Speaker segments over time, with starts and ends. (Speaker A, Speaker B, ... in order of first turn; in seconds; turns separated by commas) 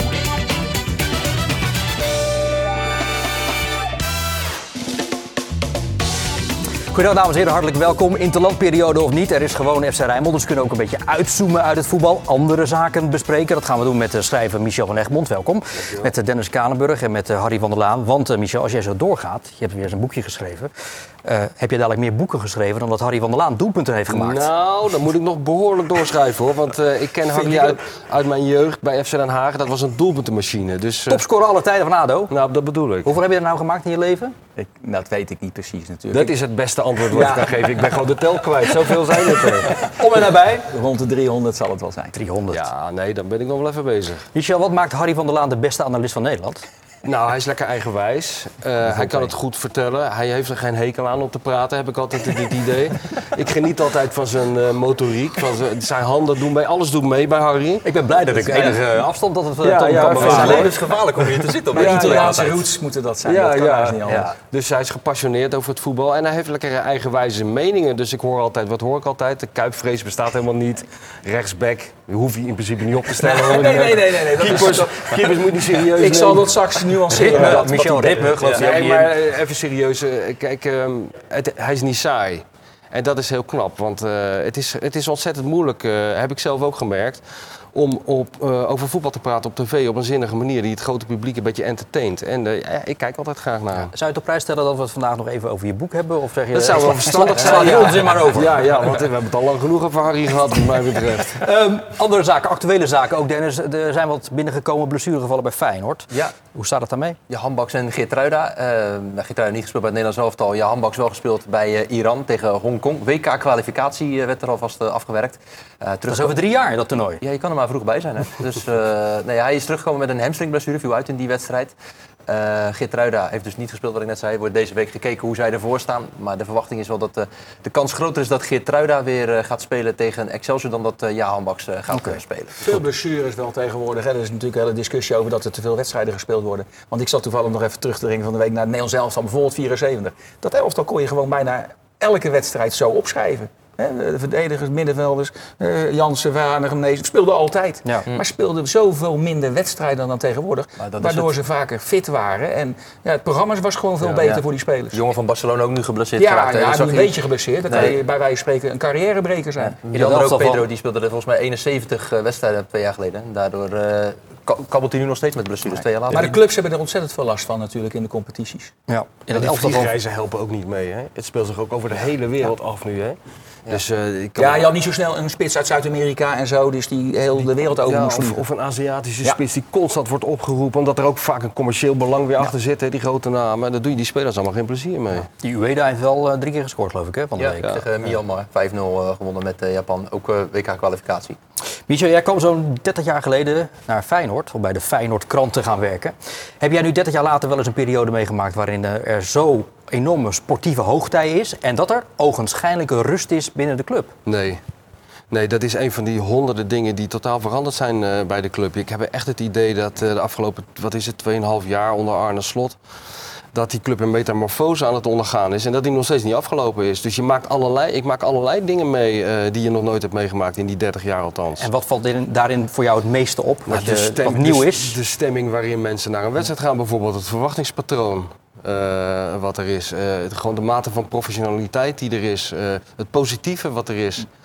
Speaker A: 6.9-20.7, Speaker A: 21.2-24.5, Speaker B: 24.1-31.2, Speaker A: 31.1-32.3, Speaker B: 32.3-33.1, Speaker A: 33.0-34.3, Speaker C: 34.5-36.3, Speaker B: 36.1-39.7, Speaker C: 37.1-37.8, Speaker A: 39.8-40.7, Speaker C: 40.7-42.1, Speaker A: 42.1-42.7, Speaker B: 42.5-44.3, Speaker A: 44.3-46.6, Speaker B: 47.0-57.9, Speaker A: 48.8-49.3, Speaker A: 57.8-60.7, Speaker B: 59.6-60.7, Speaker C: 60.2-60.6, Speaker D: 60.2-62.6, Speaker B: 61.7-62.4, Speaker C: 61.7-64.3, Speaker B: 63.2-76.6, Speaker C: 73.2-78.7, Speaker A: 77.1-79.1, Speaker B: 77.3-77.7, Speaker B: 78.4-87.2, Speaker B: 87.7-93.9, Speaker A: 93.8-98.6, Speaker B: 96.5-101.4, Speaker A: 101.4-107.2, Speaker D: 107.3-116.3, Speaker A: 116.1-117.2, Speaker D: 117.2-121.8, Speaker D: 122.3-132.6, Speaker A: 131.9-132.2, Speaker C: 132.6-155.0, Speaker D: 150.8-151.3, Speaker D: 154.0-158.0, Speaker C: 156.2-159.8, Speaker D: 159.8-166.4, Speaker A: 159.9-160.6, Speaker C: 166.1-168.7, Speaker A: 168.9-169.9, Speaker B: 169.3-174.7, Speaker C: 174.4-178.4, Speaker B: 177.4-185.3, Speaker A: 185.4-187.7, Speaker D: 187.4-191.4, Speaker A: 191.9-204.1, Speaker B: 204.2-204.6, Speaker B: 205.3-212.8, Speaker B: 213.5-221.7, Speaker A: 221.6-225.0, Speaker B: 223.7-234.3